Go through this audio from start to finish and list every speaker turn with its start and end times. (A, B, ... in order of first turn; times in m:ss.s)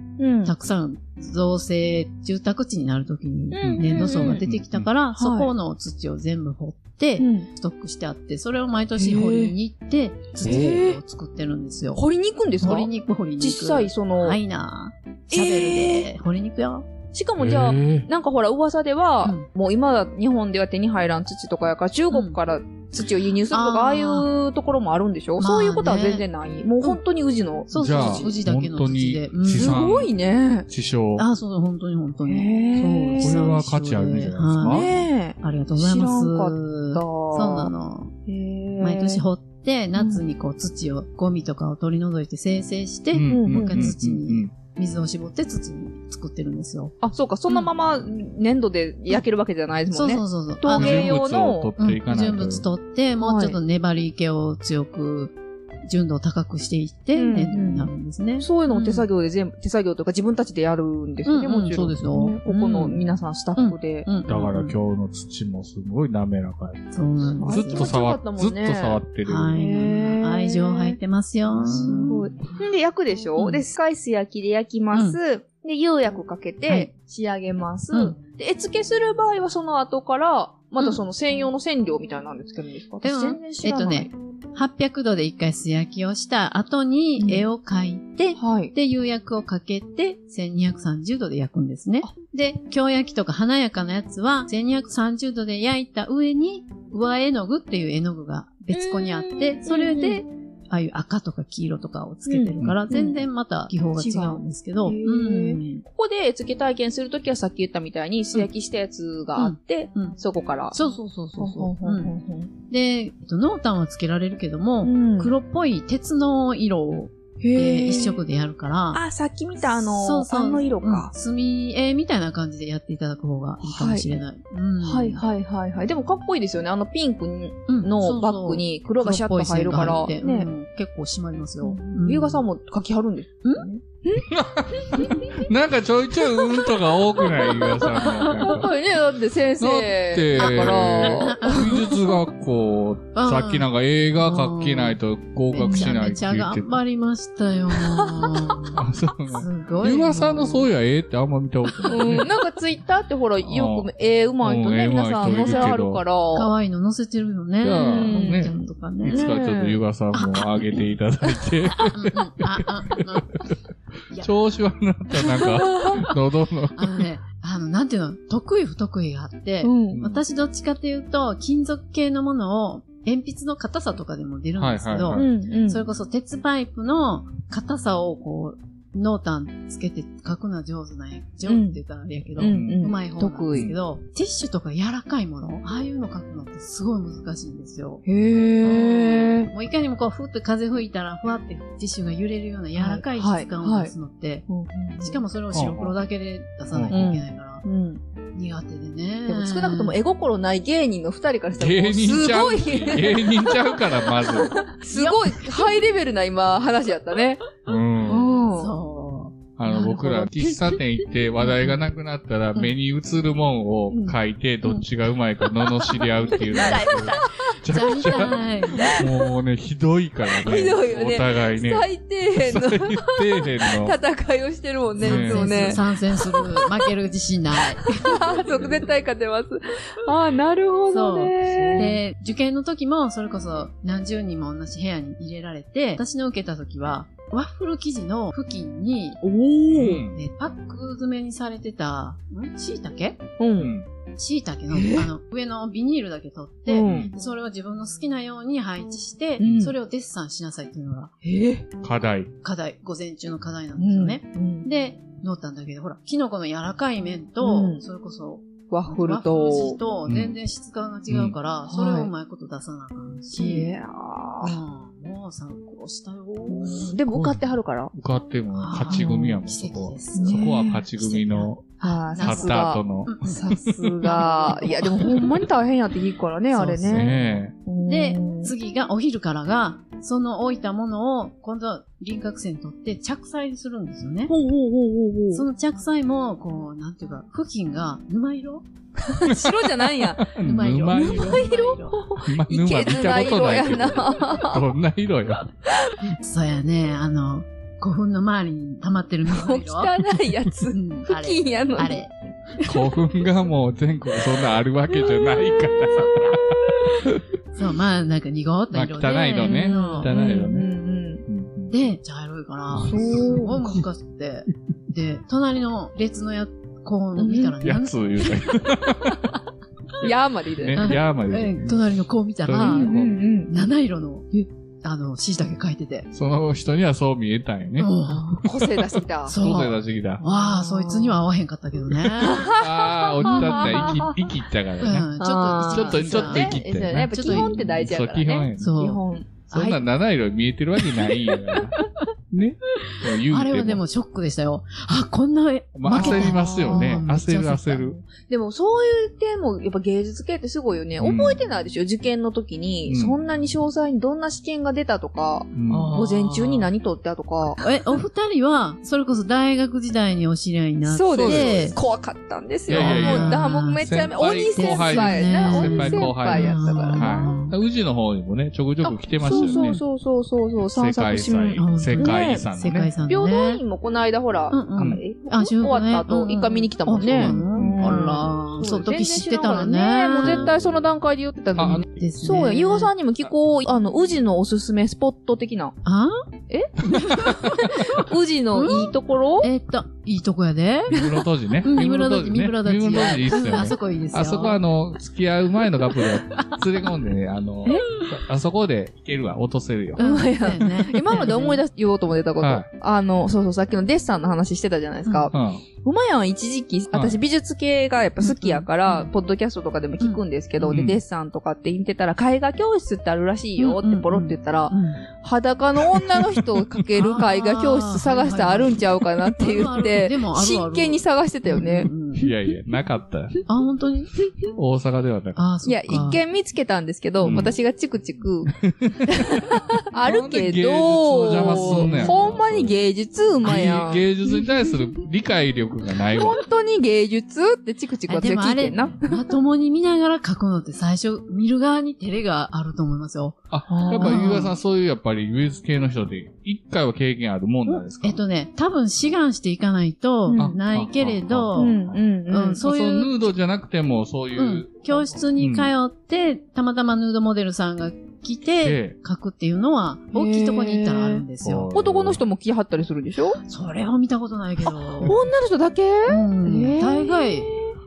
0:00.2-0:00.5 A
0:00.4-0:12.0 B
0:03.5-0:04.4 A
0:03.6-0:04.9 C
0:05.2-0:05.5 A
0:07.2-0:07.5 A
0:09.0-0:09.6 A
0:10.4-0:11.0 A
0:12.0-0:14.4 A
0:12.6-0:16.9 B
0:15.3-0:16.1 A
0:17.1-0:28.3 A
0:17.4-0:18.1 C
0:22.1-0:22.4 B
0:23.5-0:24.3 B
0:25.4-0:26.2 B
0:27.7-0:29.8 B
0:27.8-0:30.1 C
0:29.5-0:30.7 A
0:30.7-0:31.3 C
0:31.2-0:38.1 B
0:32.3-0:33.4 A
0:33.2-0:34.9 C
0:34.6-0:37.7 A
0:38.3-0:39.2 A
0:38.8-0:47.0 B
0:40.0-0:40.2 A
0:43.1-0:44.5 C
0:43.3-0:43.9 A
0:47.0-0:51.7 A
0:49.9-0:51.1 B
0:50.8-0:52.7 C
0:51.8-0:59.1 B
0:53.2-0:53.6 A
0:57.2-1:04.1 A
1:01.3-1:04.8 B
1:04.3-1:09.6 C
1:06.9-1:07.9 B
1:07.4-1:09.0 A
1:09.2-1:12.3 B
1:09.6-1:11.0 A
1:11.6-1:24.1 A
1:13.4-1:13.6 B
1:14.9-1:15.2 B
1:23.0-1:45.8 B
1:27.2-1:27.5 A
1:28.4-1:28.7 A
1:38.7-1:40.2 A
1:42.3-1:43.2 A
1:44.0-1:50.8 A
1:49.4-1:50.2 B
1:50.7-1:52.1 B
1:51.4-1:52.5 A
1:52.7-1:59.0 B
1:54.8-1:55.3 A
1:57.4-1:58.2 A
1:58.9-2:01.1 A
1:59.7-2:05.2 B
2:03.6-2:04.1 A
2:04.8-2:10.5 A
2:07.7-2:12.4 B
2:11.6-2:14.3 A
2:14.3-2:18.7 C
2:14.9-2:15.4 A
2:17.2-2:21.9 A
2:19.6-2:26.8 C
2:20.4-2:22.0 B
2:23.2-2:23.7 B
2:24.2-2:25.0 B
2:25.5-2:28.8 B
2:25.6-2:25.9 A
2:27.9-2:28.4 A
2:28.7-2:32.3 C
2:29.3-2:30.7 B
2:31.9-2:36.5 A
2:33.4-2:33.9 C
2:34.4-2:36.0 C
2:35.3-2:35.6 B
2:36.3-2:39.2 B
2:37.6-2:43.5 C
2:37.7-2:39.8 A
2:40.1-2:40.4 B
2:41.9-2:43.3 B
2:44.2-2:47.0 C
2:45.4-2:46.0 A
2:46.8-3:08.0 B
2:49.6-2:50.0 A
2:49.9-2:50.2 C
2:54.6-2:55.3 C
2:55.1-2:55.8 A
3:01.5-3:01.8 A
3:02.4-3:03.7 A
3:02.4-3:02.9 C
3:08.1-3:09.5 A
3:08.6-3:14.5 B
3:12.8-3:13.9 A
3:14.5-3:15.2 A
3:15.0-3:17.6 B
3:15.5-3:15.9 C
3:16.9-3:18.0 A
3:18.4-3:20.0 B
3:19.3-3:27.4 A
3:21.6-3:24.6 C
3:24.9-3:25.5 B
3:27.7-3:28.4 C
3:28.1-3:28.7 A
3:28.6-3:30.3 B
3:29.6-3:41.9 C
3:29.9-3:30.8 A
3:36.3-3:38.9 B
3:36.5-3:37.5 A
3:38.8-3:39.1 A
3:40.4-3:46.6 A
3:42.4-3:44.0 C
3:45.0-3:45.8 C
3:45.1-3:48.2 B
3:47.9-3:52.0 A
3:48.5-3:48.8 C
3:50.9-3:59.2 B
3:51.4-3:51.9 C
3:59.2-4:00.0 A
3:59.7-4:00.2 C
4:00.1-4:03.2 B
4:03.4-4:03.7 A
4:03.6-4:03.9 C
4:04.2-4:11.1 B
4:04.7-4:05.1 A
4:06.7-4:07.1 A
4:06.8-4:07.1 C
4:09.4-4:09.7 A
4:11.2-4:11.7 A
4:11.8-4:12.3 C
4:12.4-4:23.7 B
4:13.8-4:14.7 A
4:17.4-4:17.8 A
4:18.7-4:19.8 A
4:20.1-4:20.4 C
4:21.1-4:21.4 C
4:21.7-4:22.1 A
4:23.3-4:24.6 A
4:24.4-4:27.0 B
4:26.5-4:27.9 A
4:27.1-4:33.8 C
4:28.6-4:35.4 B
4:28.7-4:29.1 A
4:30.1-4:30.8 A
4:31.8-4:38.5 A
4:36.5-4:44.3 B
4:36.8-4:37.5 C
4:44.3-4:45.4 A
4:45.3-4:48.7 B
4:49.1-4:50.3 A
4:49.3-4:51.5 C
4:50.4-4:52.0 B
4:50.9-4:54.7 A
4:52.2-4:55.5 C
4:56.2-4:59.9 B
4:59.3-5:02.1 A
5:00.7-5:02.1 B
5:02.6-5:07.2 C
5:05.1-5:06.8 A
5:07.6-5:10.1 B
5:08.7-5:10.7 C
5:09.4-5:11.2 A
5:11.3-5:11.7 C
5:11.7-5:18.5 B
5:12.8-5:13.4 C
5:12.8-5:13.8 A
5:17.2-5:17.6 A
5:17.6-5:19.4 C
5:20.0-5:21.0 A
5:20.0-5:23.2 C
5:20.8-5:22.9 B
5:22.6-5:23.5 A
5:23.5-5:24.3 B
5:24.8-5:26.1 B
5:26.1-5:27.9 C
5:27.8-5:28.4 B
5:28.0-5:29.4 A
5:28.6-5:28.9 C
5:29.2-5:32.6 B
5:29.4-5:30.2 C
5:30.2-5:31.2 A
5:32.2-5:34.2 A
5:32.5-5:35.1 C
5:33.2-5:34.1 B
5:34.8-5:37.6 B
5:35.2-5:39.8 A
5:35.6-5:38.7 C
5:38.6-5:39.0 B
5:39.5-5:41.8 C
5:42.3-5:43.8 C
5:43.3-5:48.0 B
5:45.8-5:48.0 C
5:45.9-5:47.0 A
5:48.0-5:57.6 A
5:51.0-5:51.4 C
5:52.9-5:53.2 C
5:55.5-5:56.0 C
5:55.7-5:56.7 B
5:57.6-6:01.8 B
6:00.8-6:07.4 A
6:01.2-6:01.8 C
6:02.7-6:09.8 C
6:02.7-6:03.8 B
6:04.6-6:07.5 B
6:08.8-6:12.5 A
6:09.3-6:09.8 B
6:10.7-6:12.9 C
6:11.6-6:13.6 B
6:13.1-6:25.8 A
6:14.5-6:20.5 B
6:20.2-6:20.8 C
6:21.6-6:21.9 C
6:21.6-6:22.9 B
6:25.8-6:26.2 B
6:26.5-6:29.5 A
6:26.9-6:28.9 B
6:29.4-6:31.0 B
6:30.9-6:40.0 C
6:31.6-6:34.6 B
6:40.0-6:41.6 B
6:40.0-7:02.4 A
6:42.4-6:42.7 C
6:45.3-6:45.6 C
6:46.9-6:47.2 C
6:48.2-6:49.1 B
6:50.6-6:51.0 C
6:53.6-6:55.0 B
6:57.0-7:02.3 B
7:02.2-7:03.4 C
7:03.5-7:04.1 B
7:04.5-7:06.0 C
7:05.4-7:06.2 B
7:05.7-7:14.1 A
7:07.2-7:07.5 B
7:07.2-7:07.6 C
7:08.7-7:12.8 C
7:11.4-7:12.2 B
7:13.4-7:16.4 C
7:16.1-7:19.2 A
7:18.1-7:23.4 B
7:23.5-7:28.2 C
7:23.7-7:24.5 A
7:23.9-7:24.5 B
7:27.7-7:31.8 B
7:30.3-7:30.6 A
7:30.4-7:32.0 C
7:31.6-7:32.6 A
7:32.3-7:33.3 B
7:32.6-7:35.7 C
7:34.4-7:41.7 B
7:38.6-7:39.0 C
7:40.1-7:43.4 A
7:41.4-7:42.2 C
7:43.4-7:45.2 B
7:45.0-7:47.8 A
7:46.1-7:47.5 B